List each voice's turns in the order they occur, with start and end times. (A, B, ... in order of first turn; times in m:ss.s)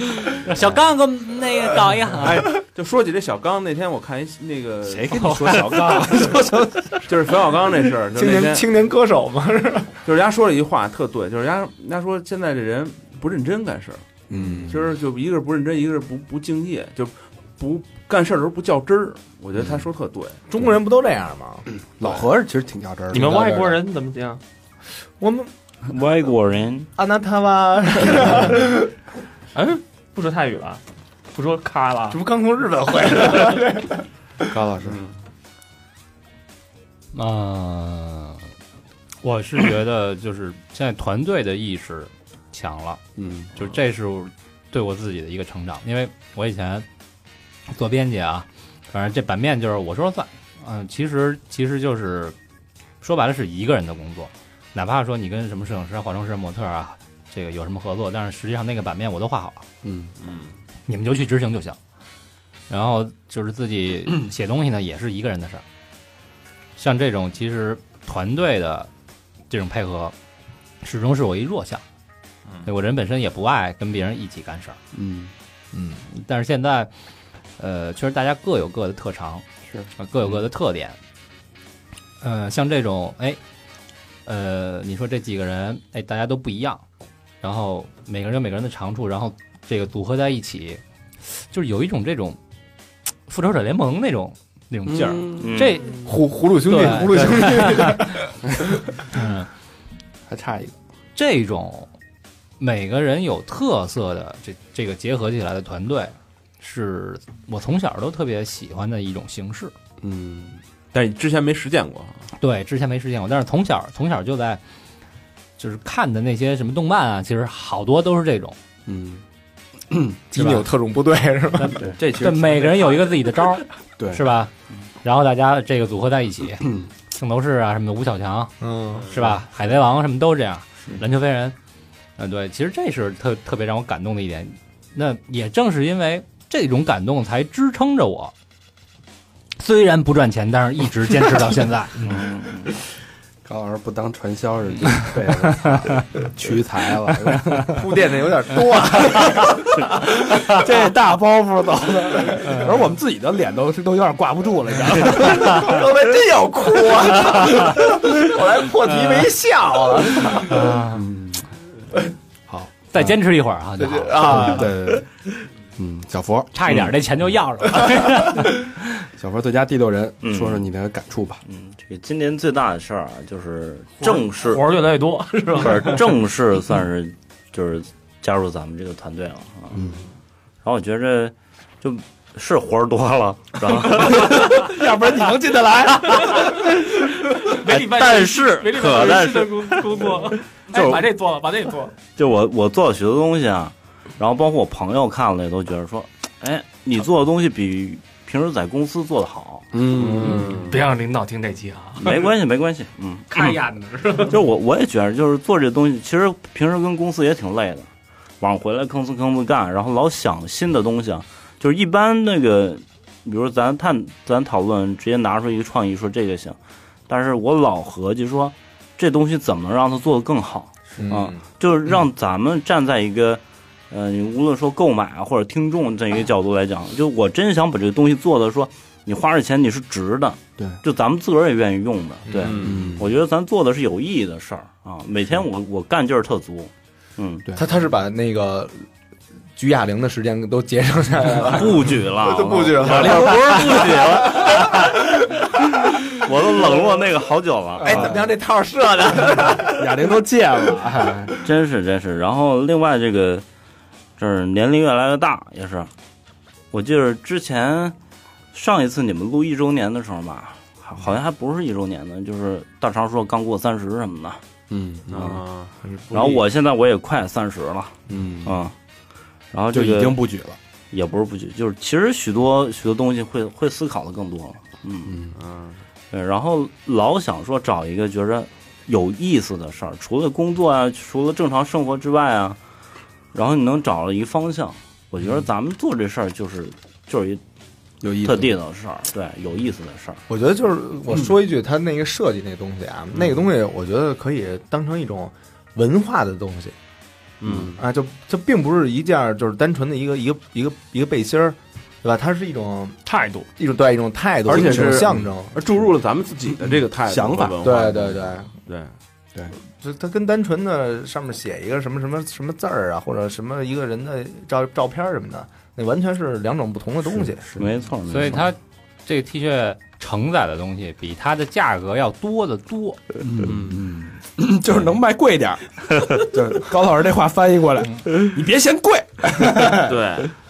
0:00.3-0:02.5 A
0:02.2-0:05.6 B
0:04.9-0:07.0 C
0:05.1-0:06.1 A
0:07.0-0:08.8 B
0:08.1-0:10.0 D
0:10.0-0:20.4 B
0:14.3-0:14.8 C
0:14.3-0:14.8 D
0:19.6-0:19.8 C
0:20.5-0:21.7 D
0:22.0-0:23.4 C
0:23.1-0:24.4 E
0:23.1-0:23.8 D
0:25.2-0:25.5 D
0:25.9-0:26.9 F
0:27.0-0:28.9 D
0:29.5-0:30.8 E
0:31.3-0:32.2 E
0:32.1-0:34.0 D
0:34.4-0:35.0 C
0:34.9-0:35.2 B
0:37.1-0:38.5 A
0:39.2-0:43.0 A
0:43.2-0:43.6 C
0:43.6-0:46.9 A
0:47.7-0:52.4 A
0:53.0-0:59.7 A
0:59.8-1:00.1 C
1:00.2-1:00.5 B
1:00.9-1:01.8 A
1:02.7-1:05.6 A
1:06.8-1:08.9 A
1:09.5-1:10.1 A
1:10.8-1:11.8 A
1:12.7-1:14.8 A
1:14.9-1:15.3 C
1:15.7-1:16.0 D
1:16.1-1:16.9 A
1:17.6-1:19.4 A
1:20.0-1:21.0 A
1:22.2-1:23.4 A
1:24.3-1:26.8 A
1:27.4-1:32.4 A
1:33.3-1:36.1 A
1:34.9-1:35.6 C
1:35.4-1:35.8 F
1:35.9-1:38.3 D
1:36.6-1:38.2 A
1:39.1-1:39.5 A
1:40.3-1:40.8 C
1:41.2-1:41.9 A
1:42.6-1:49.7 A
1:50.0-1:50.6 C
1:50.9-1:52.3 B
1:52.4-1:54.6 A
1:55.6-1:58.6 A
1:58.9-1:59.2 C
1:59.9-2:00.4 C
2:00.3-2:01.9 D
2:00.4-2:00.6 A
2:01.6-2:04.5 A
2:01.8-2:03.0 C
2:04.0-2:04.2 C
2:05.0-2:11.6 A
2:06.6-2:06.9 C
2:08.6-2:09.2 D
2:12.2-2:18.3 A
2:19.6-2:22.2 A
2:22.0-2:22.7 F
2:23.4-2:28.0 C
2:25.5-2:25.7 A
2:27.6-2:30.2 D
2:30.3-2:35.8 C
2:35.0-2:40.7 D
2:40.5-2:41.0 A
2:40.9-2:41.5 C
2:42.5-2:43.2 C
2:42.9-2:44.6 A
2:43.8-2:44.8 D
2:44.2-2:45.1 C
2:45.8-2:46.9 C
2:46.5-2:48.8 A
2:49.1-2:51.4 C
2:50.2-2:50.6 F
2:51.5-2:54.7 F
2:54.0-2:56.2 E
2:55.5-2:59.9 F
2:59.7-3:00.1 C
3:00.6-3:04.8 F
3:04.0-3:06.4 C
3:06.2-3:06.9 F
3:06.2-3:12.0 E
3:07.4-3:10.1 F
3:10.7-3:11.1 F
3:12.2-3:19.8 F
3:19.7-3:20.5 C
3:19.8-3:20.8 B
3:20.4-3:22.3 E
3:22.0-3:23.6 F
3:23.3-3:24.4 E
3:24.2-3:27.9 F
3:28.4-3:36.6 F
3:37.1-3:57.5 F
3:41.0-3:41.4 D
3:52.3-3:52.8 D
3:52.3-3:52.9 B
3:52.6-3:53.1 C
3:57.5-3:58.9 D
3:59.6-4:05.0 D
4:01.4-4:08.1 F
4:02.9-4:03.7 C
4:06.5-4:06.8 D
4:07.8-4:10.1 D
4:07.8-4:08.3 C
4:09.7-4:11.4 C
4:11.4-4:13.4 F
4:14.2-4:15.9 F
4:16.7-4:18.0 F
4:18.5-4:24.4 F
4:24.7-4:25.4 C
4:25.1-4:25.8 B
4:25.8-4:26.4 D
4:26.1-4:28.7 F
4:28.1-4:28.6 C
4:29.5-4:30.2 F
4:29.7-4:30.6 C
4:30.9-4:35.2 F
4:35.1-4:35.4 C
4:35.3-4:35.8 B
4:36.1-4:42.6 F
4:43.3-4:47.4 F
4:48.0-4:48.6 C
4:48.2-4:50.2 F
4:50.3-4:56.8 D
4:57.4-4:57.8 F
4:57.4-4:57.7 B
4:57.8-5:03.0 D
5:03.0-5:03.5 E
5:03.6-5:05.9 D
5:04.5-5:08.9 B
5:04.5-5:05.3 C
5:06.5-5:07.7 C
5:07.6-5:08.5 D
5:09.6-5:17.5 D
5:17.1-5:17.7 C
5:17.6-5:18.5 F
5:18.1-5:23.0 A
5:23.2-5:30.0 C
5:23.4-5:23.9 B
5:29.7-5:30.3 B